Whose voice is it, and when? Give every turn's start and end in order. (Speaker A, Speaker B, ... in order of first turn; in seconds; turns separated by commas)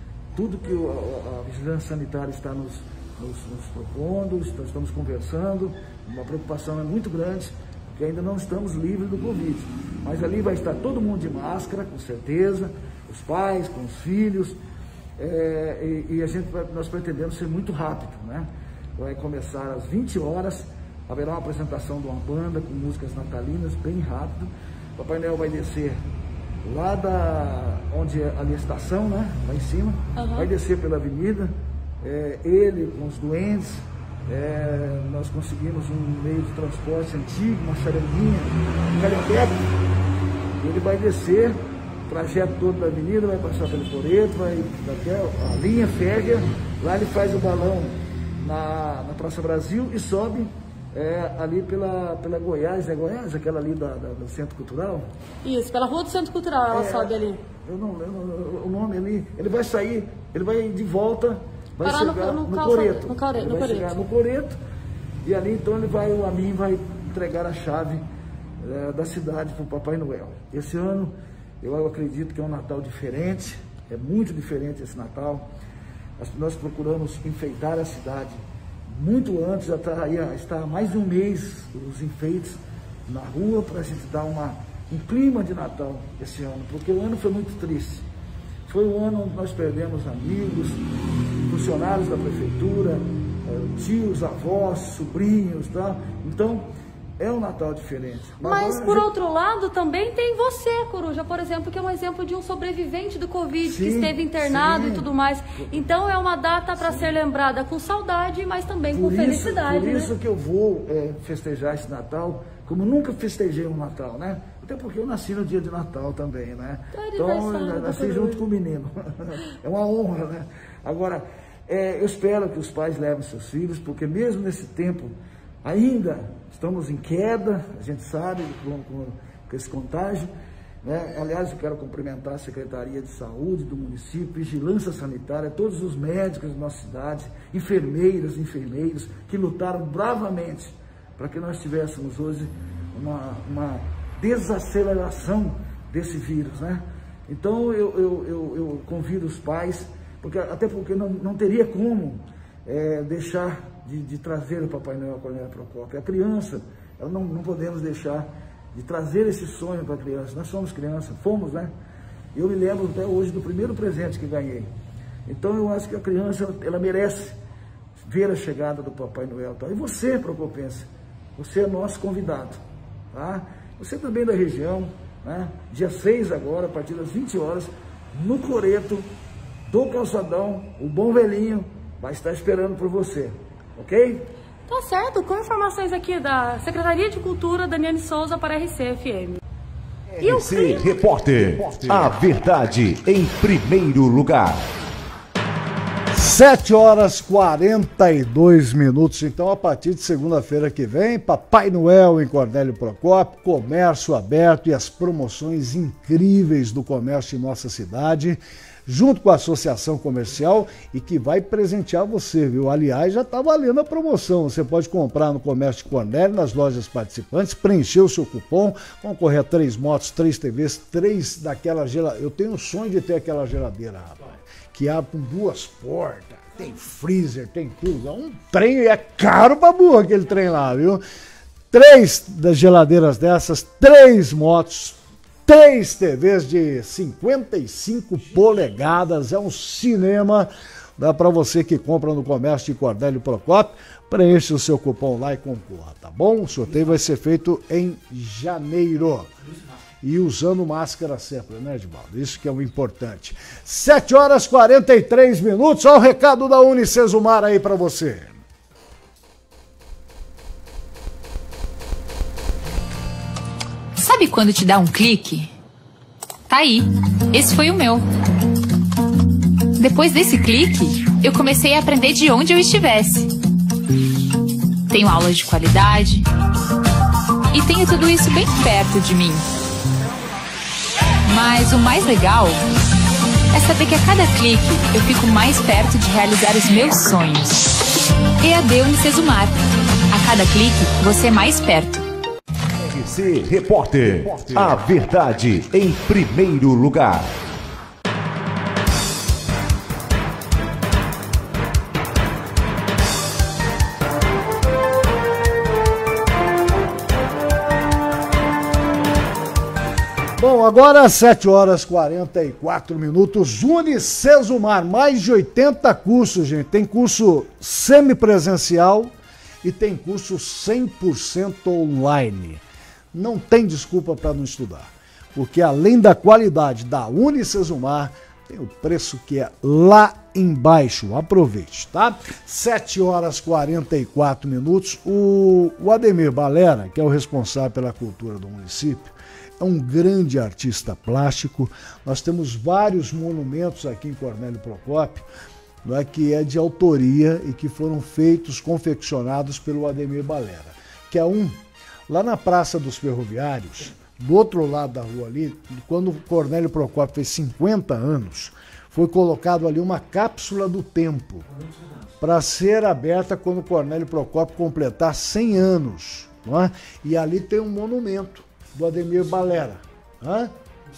Speaker A: 0.3-14.6, Speaker A: 15.2-26.0, Speaker A: 26.6-39.7, Speaker B: 30.1-30.5, Speaker A: 40.6-55.1, Speaker B: 55.4-57.4, Speaker A: 56.7-64.6, Speaker B: 61.8-64.0, Speaker A: 65.2-68.0, Speaker A: 68.6-75.5, Speaker A: 76.2-88.0, Speaker A: 88.7-90.8, Speaker A: 91.4-99.1, Speaker B: 98.4-110.1, Speaker A: 103.7-105.0, Speaker A: 106.8-107.1, Speaker A: 108.9-130.3, Speaker B: 116.9-118.5, Speaker A: 130.8-161.7, Speaker A: 162.3-164.7, Speaker A: 165.3-167.4, Speaker A: 168.0-172.6, Speaker A: 173.1-179.1, Speaker A: 179.7-184.3, Speaker B: 184.7-189.4, Speaker C: 190.1-194.7, Speaker B: 190.2-190.9, Speaker D: 196.1-231.0, Speaker D: 231.7-249.3, Speaker D: 250.0-258.4, Speaker E: 263.9-265.5, Speaker E: 266.5-268.1, Speaker E: 269.7-273.3, Speaker E: 274.9-276.3, Speaker E: 277.5-279.4, Speaker E: 281.2-282.6, Speaker E: 283.5-287.8, Speaker E: 288.4-292.1, Speaker C: 292.8-297.3, Speaker D: 310.4-322.6, Speaker D: 323.1-345.3, Speaker D: 345.8-361.4, Speaker D: 362.2-370.5